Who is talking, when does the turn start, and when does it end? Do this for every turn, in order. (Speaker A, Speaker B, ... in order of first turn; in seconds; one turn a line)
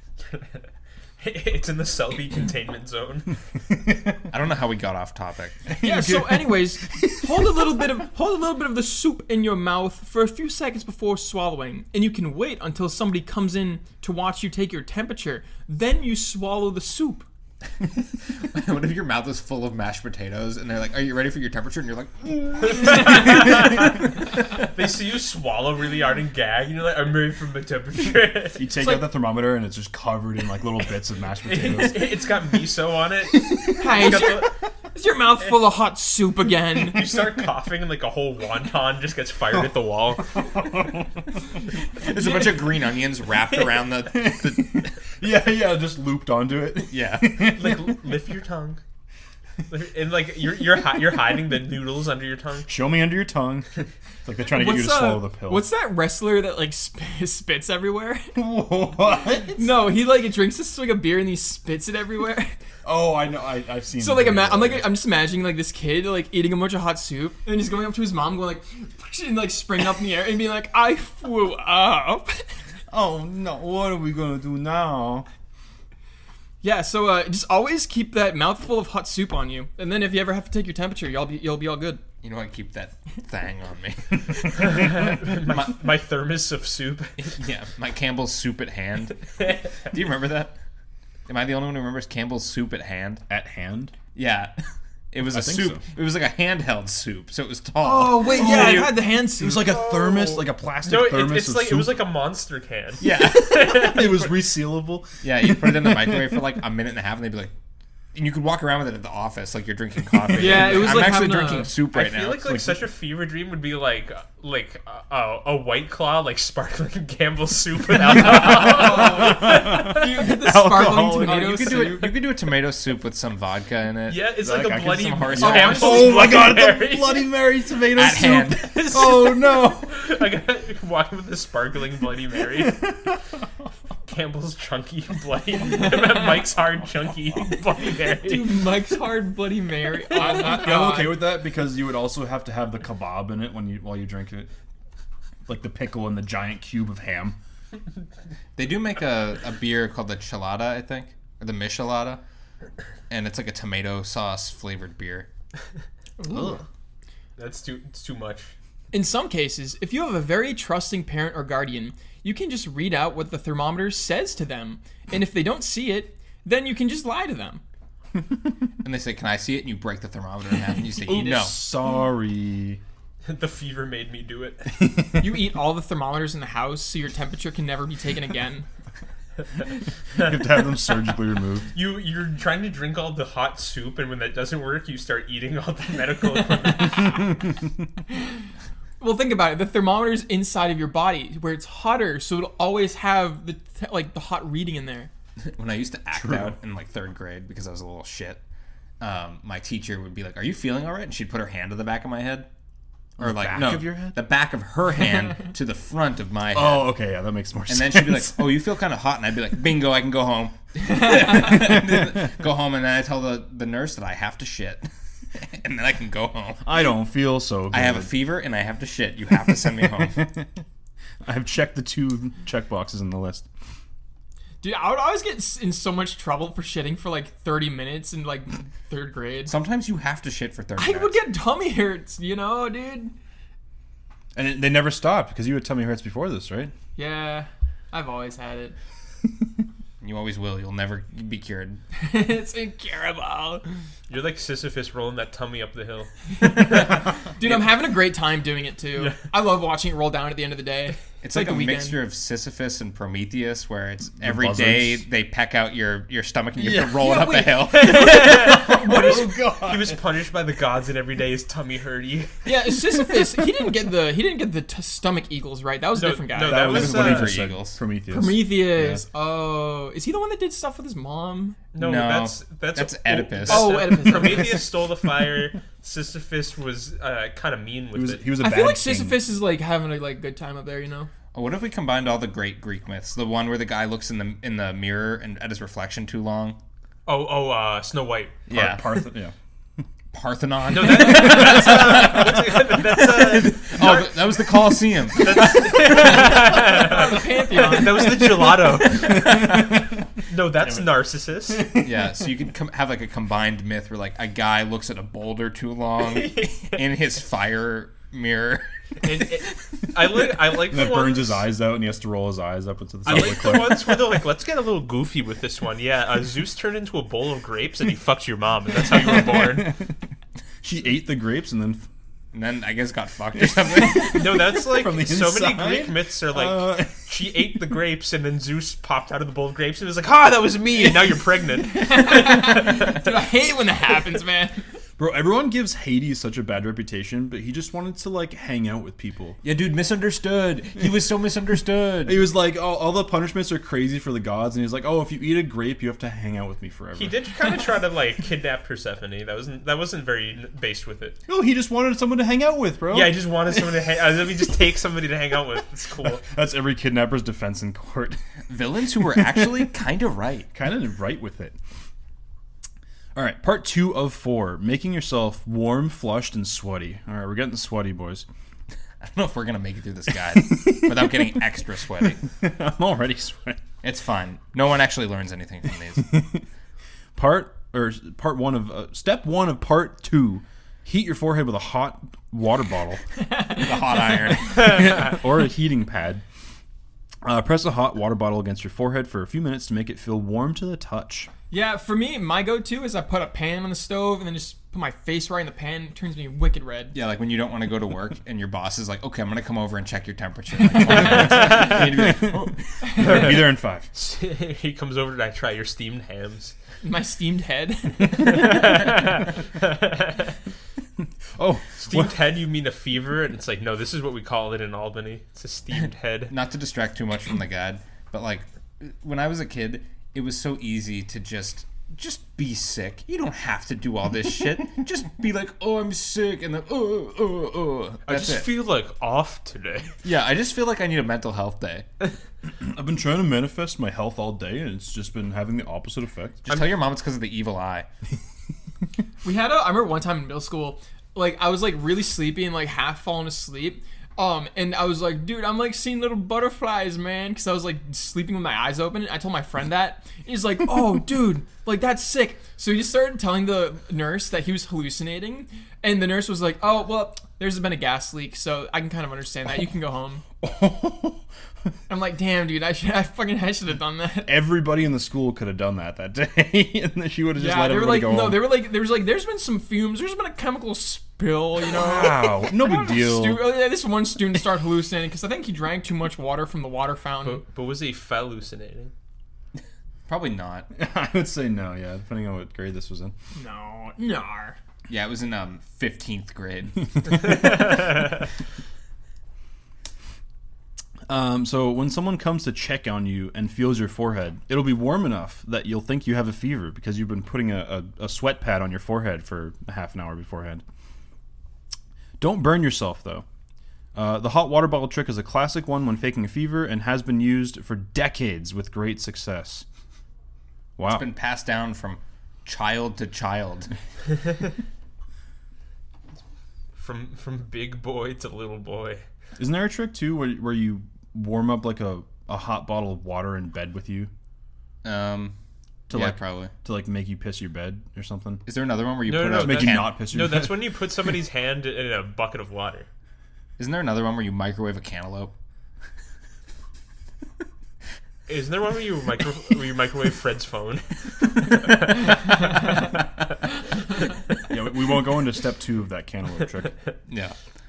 Speaker A: 0.3-0.6
Speaker A: 1.2-3.3
Speaker B: 3.9-4.1
Speaker C: 4.3-5.7
Speaker B: 5.7-7.8
Speaker D: 5.8-17.2
Speaker C: 18.4-23.9
Speaker A: 22.6-28.6
Speaker B: 28.6-32.2
Speaker D: 28.8-29.1
Speaker A: 31.4-34.5
Speaker D: 33.7-37.1
Speaker A: 36.8-40.3
Speaker B: 40.3-41.3
Speaker C: 42.0-44.9
Speaker B: 44.1-48.2
Speaker C: 46.9-47.4
Speaker A: 47.4-48.8
Speaker A: 49.7-52.7
Speaker B: 52.7-53.7
Speaker B: 54.2-55.7
Speaker D: 54.5-58.3
Speaker B: 58.3-59.7
Speaker D: 59.5-62.5
Speaker B: 62.8-64.9
Speaker D: 64.0-72.5
Speaker B: 72.9-75.3
Speaker D: 76.6-82.0
Speaker C: 82.2-85.7
Speaker A: 84.5-87.3
Speaker C: 87.2-90.5
Speaker C: 91.3-93.2
Speaker B: 93.3-93.9
Speaker C: 94.1-94.5
Speaker C: 95.1-98.9
Speaker B: 95.3-95.8
Speaker D: 97.8-99.8
Speaker B: 98.2-102.0
Speaker A: 99.6-104.3
Speaker C: 103.0-104.0
Speaker B: 103.4-106.4
Speaker C: 105.2-107.5
Speaker C: 108.1-112.5
Speaker D: 110.3-111.7
Speaker A: 111.9-119.8
Speaker B: 112.4-112.8
Speaker B: 118.4-122.0
Speaker D: 118.7-122.1
Speaker C: 121.2-126.0
Speaker A: 124.1-127.3
Speaker B: 124.5-130.0
Speaker D: 125.4-126.3
Speaker C: 127.9-128.9
Speaker A: 128.6-132.9
Speaker B: 132.6-133.2
Speaker A: 134.1-138.7
Speaker D: 138.0-141.2
Speaker B: 140.1-144.5
Speaker B: 145.4-147.4
Speaker C: 148.6-152.2
Speaker C: 153.1-155.3
Speaker D: 156.2-156.6
Speaker B: 156.3-156.6
Speaker A: 157.4-158.5
Speaker D: 158.9-167.6
Speaker C: 168.8-171.5
Speaker B: 171.0-172.8
Speaker A: 173.2-174.7
Speaker B: 174.8-175.3
Speaker D: 175.2-178.7
Speaker B: 180.2-181.7
Speaker A: 181.7-187.3
Speaker D: 189.0-195.1
Speaker C: 195.4-198.4
Speaker B: 196.1-196.6
Speaker C: 199.0-202.5
Speaker B: 203.2-204.2
Speaker C: 203.2-206.9
Speaker B: 206.5-208.5
Speaker C: 207.7-216.6
Speaker B: 216.6-218.1
Speaker C: 217.7-220.3
Speaker B: 219.7-220.5
Speaker B: 221.2-223.5
Speaker D: 224.6-229.5
Speaker C: 229.4-231.2
Speaker D: 230.8-233.1
Speaker B: 234.3-236.7
Speaker D: 236.9-238.7
Speaker C: 240.0-241.8
Speaker D: 241.9-243.6
Speaker A: 244.1-247.7
Speaker D: 246.5-252.0
Speaker C: 251.2-258.2
Speaker B: 254.2-255.0
Speaker B: 256.6-257.2
Speaker D: 257.0-259.4
Speaker A: 257.7-262.3
Speaker B: 258.1-260.0
Speaker D: 262.4-266.7
Speaker A: 265.9-267.3
Speaker B: 266.4-269.0
Speaker C: 266.5-267.8
Speaker D: 268.1-271.6
Speaker A: 271.7-278.2
Speaker C: 271.8-273.9
Speaker D: 273.5-274.7
Speaker B: 277.9-279.2
Speaker D: 278.4-281.1
Speaker C: 281.3-286.6
Speaker A: 287.1-288.4
Speaker C: 288.5-289.0
Speaker B: 288.5-289.3
Speaker C: 290.1-296.6
Speaker A: 290.7-294.2
Speaker B: 291.4-291.9
Speaker A: 295.1-299.7
Speaker D: 296.6-298.6
Speaker B: 298.2-299.8
Speaker A: 300.3-301.7
Speaker B: 301.5-302.2
Speaker C: 301.8-309.0
Speaker A: 306.0-306.8
Speaker A: 309.0-311.4
Speaker B: 310.4-314.2
Speaker A: 313.0-319.7
Speaker B: 318.9-319.9
Speaker B: 320.6-321.9
Speaker C: 322.3-324.4
Speaker B: 323.5-327.3
Speaker A: 323.9-332.9
Speaker D: 331.7-334.6
Speaker B: 335.0-339.4
Speaker C: 339.4-342.2
Speaker B: 342.0-347.3
Speaker A: 346.9-351.2
Speaker B: 351.3-353.7
Speaker A: 352.9-356.2
Speaker B: 356.2-358.2
Speaker C: 358.5-360.5
Speaker B: 359.1-359.6
Speaker B: 360.5-361.6
Speaker B: 363.1-368.2
Speaker C: 369.0-372.2
Speaker B: 370.3-371.4
Speaker B: 372.2-373.6
Speaker C: 373.8-376.2
Speaker B: 376.0-376.4
Speaker B: 377.1-383.0
Speaker D: 383.2-384.2
Speaker C: 383.5-385.1
Speaker B: 384.4-386.2
Speaker B: 387.2-391.3
Speaker D: 391.5-396.9
Speaker C: 396.9-403.3
Speaker B: 400.9-403.9
Speaker A: 401.3-401.8
Speaker A: 403.0-403.4
Speaker A: 403.9-406.5
Speaker D: 406.8-408.8
Speaker A: 408.1-410.4
Speaker B: 411.4-412.1
Speaker A: 411.8-416.3
Speaker C: 416.3-428.5
Speaker A: 428.1-429.9
Speaker C: 430.0-431.9
Speaker B: 432.6-436.4
Speaker C: 436.4-437.9
Speaker D: 439.2-460.2
Speaker B: 460.4-461.2
Speaker D: 461.9-464.4
Speaker B: 464.2-468.5
Speaker D: 467.3-477.4
Speaker B: 471.7-473.6
Speaker A: 477.2-478.9
Speaker C: 480.1-480.7
Speaker B: 480.7-483.1
Speaker D: 483.3-484.6
Speaker C: 484.9-487.7
Speaker B: 491.1-500.6
Speaker B: 502.2-503.2
Speaker B: 503.9-509.6
Speaker B: 510.8-511.1
Speaker C: 510.9-513.7
Speaker A: 516.8-519.0
Speaker B: 519.4-524.1
Speaker C: 524.8-525.4
Speaker B: 525.9-528.4
Speaker C: 525.9-526.5
Speaker C: 528.5-530.0
Speaker A: 529.0-532.9
Speaker B: 529.3-530.7
Speaker C: 533.6-535.3
Speaker A: 538.3-542.8
Speaker B: 544.5-546.7
Speaker C: 547.1-547.4